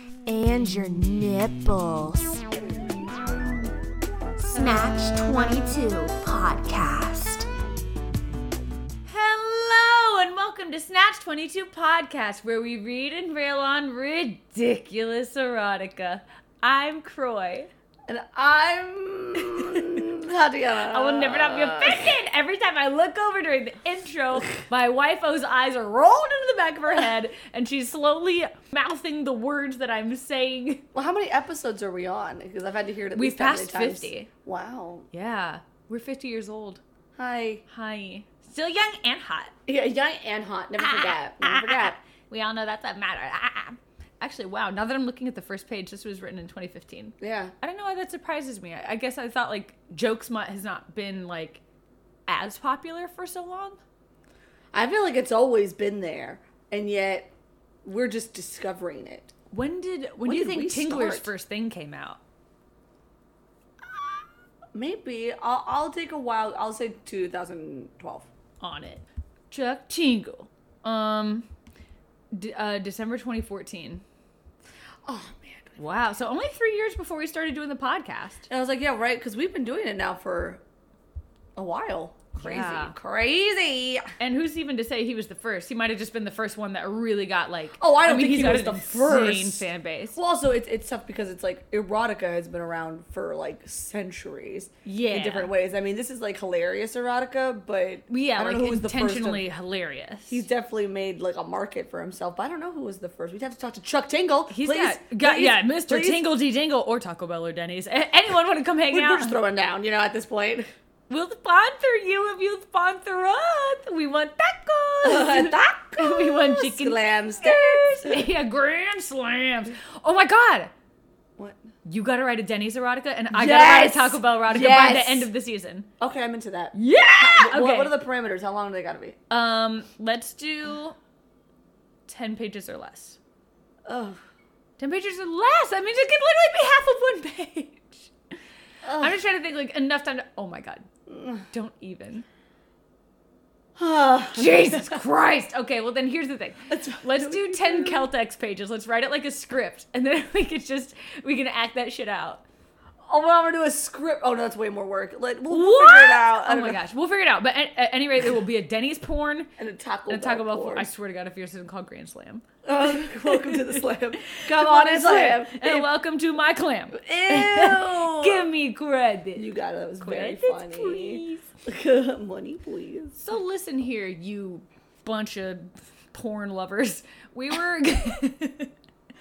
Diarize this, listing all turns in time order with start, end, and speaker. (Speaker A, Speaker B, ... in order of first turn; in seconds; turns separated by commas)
Speaker A: 0.2-2.5, Speaker A: 4.4-7.5, Speaker A: 9.1-17.7, Speaker B: 18.1-22.1, Speaker A: 19.4-20.0, Speaker A: 20.8-30.9, Speaker B: 30.9-35.1, Speaker A: 33.1-34.3, Speaker A: 35.1-36.8, Speaker B: 37.1-37.6, Speaker A: 37.7-39.5, Speaker B: 39.7-42.0, Speaker A: 40.8-51.6, Speaker B: 47.2-47.5, Speaker A: 52.3-53.8, Speaker B: 54.7-57.3, Speaker B: 57.8-59.3, Speaker A: 59.5-62.2, Speaker B: 60.2-61.3, Speaker B: 64.7-68.3, Speaker A: 68.6-71.5, Speaker A: 72.3-74.0, Speaker B: 75.0-75.8, Speaker A: 75.8-78.5, Speaker B: 78.5-80.6, Speaker B: 81.5-84.1, Speaker A: 82.4-82.9, Speaker A: 84.2-90.2, Speaker B: 87.8-99.5, Speaker A: 94.8-95.5, Speaker A: 98.1-100.5, Speaker B: 100.3-106.2, Speaker A: 104.5-109.4, Speaker B: 108.9-110.7, Speaker A: 111.1-120.7, Speaker B: 115.0-118.3, Speaker A: 121.8-125.9, Speaker B: 123.3-125.3, Speaker B: 126.0-129.2, Speaker A: 126.7-128.0, Speaker A: 129.3-131.0, Speaker A: 132.1-133.2, Speaker B: 133.8-134.2, Speaker A: 134.8-138.1, Speaker B: 138.8-139.2, Speaker A: 139.0-140.9, Speaker B: 141.1-141.4, Speaker A: 141.5-142.2, Speaker B: 143.8-145.0, Speaker A: 144.3-152.4, Speaker B: 146.7-148.1, Speaker B: 153.1-156.8, Speaker A: 155.5-159.5, Speaker B: 159.6-160.9, Speaker A: 160.1-169.4, Speaker B: 162.6-165.9, Speaker B: 166.9-168.5, Speaker B: 169.3-173.2, Speaker A: 170.0-171.5, Speaker A: 173.2-178.7